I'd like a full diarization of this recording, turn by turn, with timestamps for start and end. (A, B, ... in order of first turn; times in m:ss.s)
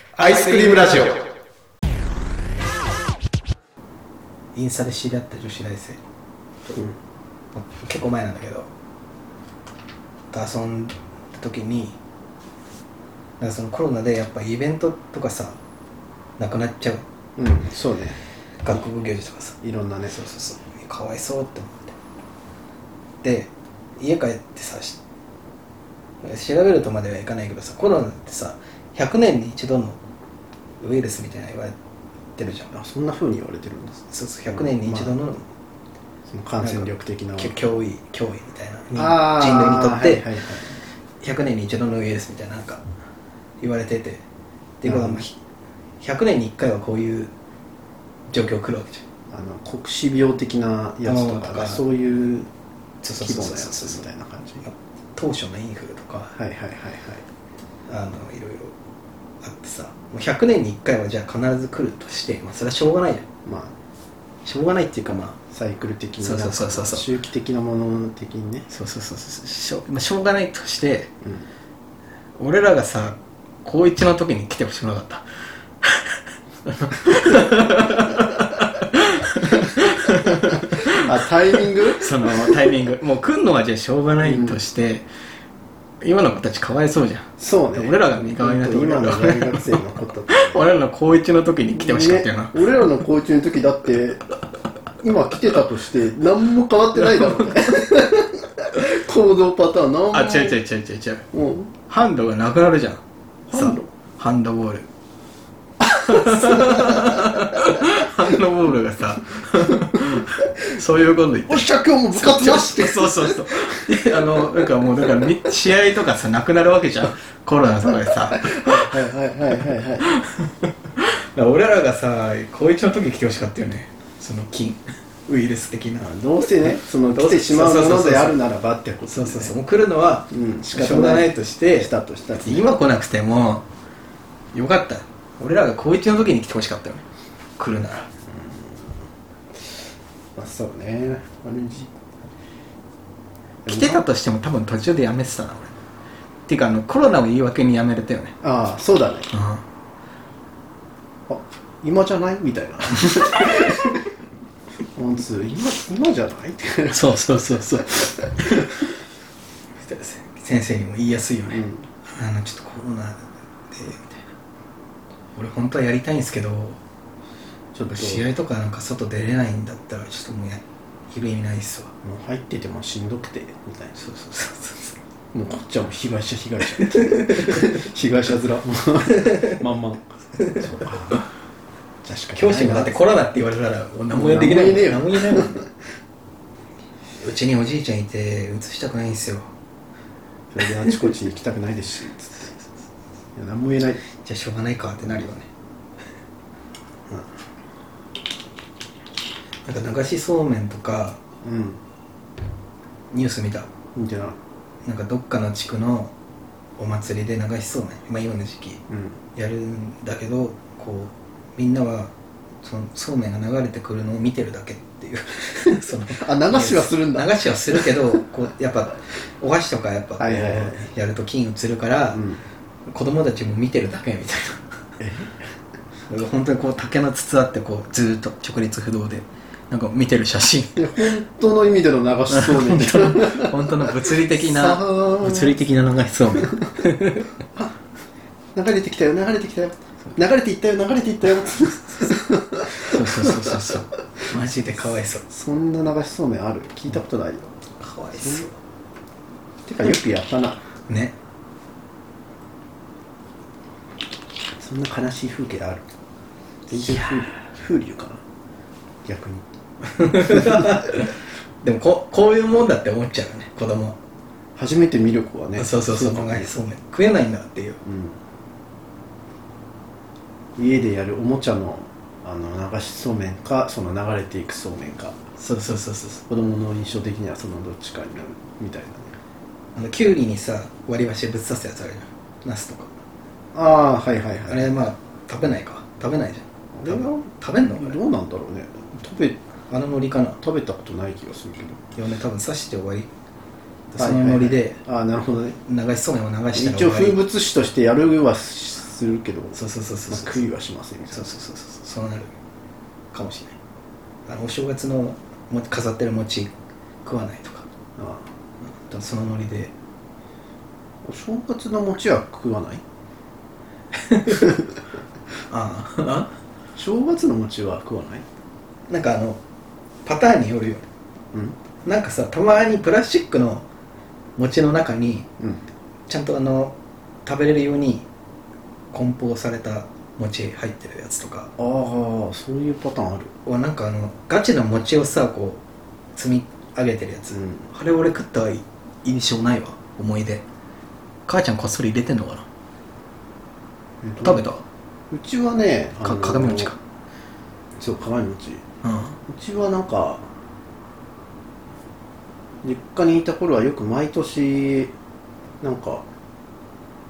0:00.2-0:01.2 A
0:00.2-0:01.2 B
0:04.6-0:06.0 A
0:06.7-0:07.0 B
0:07.6-0:08.7 A
0:10.3-0:12.0 A
0:13.4-0:15.6 A
0:16.4-0:17.0 A
0:17.4-0:18.2 B
0:18.6-0:22.0 A
0:19.6-0:20.2 B
0:23.2-0:25.0 A
0:26.2-0:30.0 A
0:30.8-0:31.8 A
0:32.4-0:32.7 A
0:32.7-0:35.2 B
0:34.1-0:35.5 A
0:36.3-0:37.6 B
0:36.6-0:40.3 A
0:39.0-0:40.8 B
0:41.2-0:42.8 A
0:43.6-0:44.2 A
0:44.8-0:45.4 A
0:44.8-0:45.2 B
0:46.0-0:47.3 A
0:48.3-0:49.0 A
0:49.3-0:52.5 B
0:51.0-0:51.8 A
0:53.0-0:54.1 A
0:53.2-0:54.7 B
0:54.6-0:56.4 A
0:56.4-0:57.2 B
0:57.9-0:58.7 A
0:59.4-1:03.3 A
1:03.4-1:03.7 B
1:04.4-1:05.4 A
1:05.5-1:08.7 B
1:06.2-1:07.1 A
1:08.7-1:11.1 A
1:12.4-1:15.2 A
1:15.8-1:21.1 A
1:20.3-1:22.7 B
1:21.9-1:25.1 A
1:24.2-1:24.6 B
1:26.0-1:32.9 A
1:27.4-1:30.6 B
1:31.7-1:34.3 B
1:35.0-1:40.6 B
1:37.1-1:37.5 A
1:40.1-1:41.3 A
1:41.3-1:41.7 B
1:41.9-1:44.9 A
1:43.5-1:43.9 B
1:45.8-1:59.0 A
1:46.0-1:47.6 B
1:50.0-1:50.3 B
1:51.5-1:54.5 B
1:58.3-2:00.1 B
2:00.0-2:08.4 A
2:06.0-2:09.6 B
2:09.1-2:13.6 A
2:10.3-2:12.7 B
2:14.5-2:17.0 A
2:17.6-2:18.1 A
2:18.3-2:19.0 B
2:20.4-2:21.9 B
2:23.7-2:24.0 B
2:23.7-2:25.7 A
2:26.5-2:28.4 A
2:28.4-2:29.3 B
2:29.3-2:29.6 A
2:31.3-2:34.0 B
2:33.0-2:33.8 A
2:35.0-2:37.3 B
2:36.9-2:38.9 A
2:38.0-2:38.6 B
2:39.8-2:44.3 A
2:41.5-2:41.8 B
2:45.4-2:46.8 A
2:47.7-2:48.3 B
2:47.9-2:51.9 A
2:52.0-2:54.0 B
2:54.0-2:55.0 A
2:55.3-3:01.2 B
2:56.8-2:57.7 A
2:59.2-2:59.4 A
3:00.4-3:00.7 A
3:02.0-3:03.0 B
3:02.3-3:05.6 A
3:04.1-3:05.7 B
3:07.2-3:09.5 A
3:10.5-3:12.5 B
3:10.9-3:11.1 A
3:13.4-3:14.0 B
3:14.2-3:15.5 A
3:19.6-3:21.2 A
3:21.4-3:21.8 B
3:23.1-3:23.7 A
3:24.0-3:24.4 B
3:24.8-3:26.1 A
3:26.8-3:28.8 A
3:28.9-3:29.2 B
3:29.4-3:32.1 A
3:32.6-3:42.2 A
3:36.2-3:38.2 B
3:40.2-3:40.9 B
3:42.1-3:42.4 B
3:42.9-3:44.7 A
3:45.0-3:45.4 B
3:46.1-3:51.1 A
3:50.8-3:55.6 B
3:52.3-3:57.3 A
3:58.6-4:03.6 B
4:02.8-4:05.2 A
4:05.3-4:07.5 B
4:07.8-4:08.6 A
4:08.1-4:08.5 B
4:09.7-4:10.6 B
4:10.9-4:11.1 A
4:14.6-4:15.9 B
4:16.7-4:18.2 B
4:16.7-4:17.4 A
4:19.0-4:19.4 B
4:19.8-4:24.0 A
4:20.1-4:20.8 B
4:24.6-4:26.5 B
4:25.6-4:27.8 A
4:27.8-4:28.2 B
4:30.6-4:35.2 B
4:35.4-4:36.2 A
4:36.3-4:39.1 B
4:39.8-4:42.9 A
4:43.5-4:44.8 B
4:44.5-4:48.0 A
4:46.8-4:49.4 B
4:49.7-4:50.4 A
4:50.4-4:51.8 B
4:51.9-4:53.1 A
4:53.9-4:54.8 A
4:54.0-4:55.6 B
4:55.6-4:57.2 A
4:56.5-4:59.6 B
4:59.5-5:00.4 A
5:00.1-5:01.3 B
5:01.1-5:02.3 A
5:03.1-5:03.6 A
5:04.3-5:06.5 A
5:07.0-5:07.7 A
5:08.0-5:08.3 B
5:08.8-5:09.7 A
5:11.0-5:12.8 B
5:13.9-5:14.6 A
5:15.5-5:16.3 A
5:16.8-5:18.3 B
5:18.9-5:19.4 A
5:20.0-5:20.8 A
5:21.8-5:23.7 A
5:24.4-5:25.3 A
5:26.1-5:28.1 A
5:28.9-5:31.5 A
5:31.6-5:33.3 B
5:33.4-5:35.6 A
5:36.2-5:40.4 A
5:37.3-5:37.7 B
5:41.3-5:42.5 A
5:44.0-5:44.5 B
5:44.2-5:44.6 A
5:45.1-5:46.7 B
5:46.0-5:46.8 A
5:47.8-5:48.6 B
5:48.8-5:49.2 A
5:49.3-5:50.3 B
5:52.6-5:54.9 B
5:55.6-5:56.0 B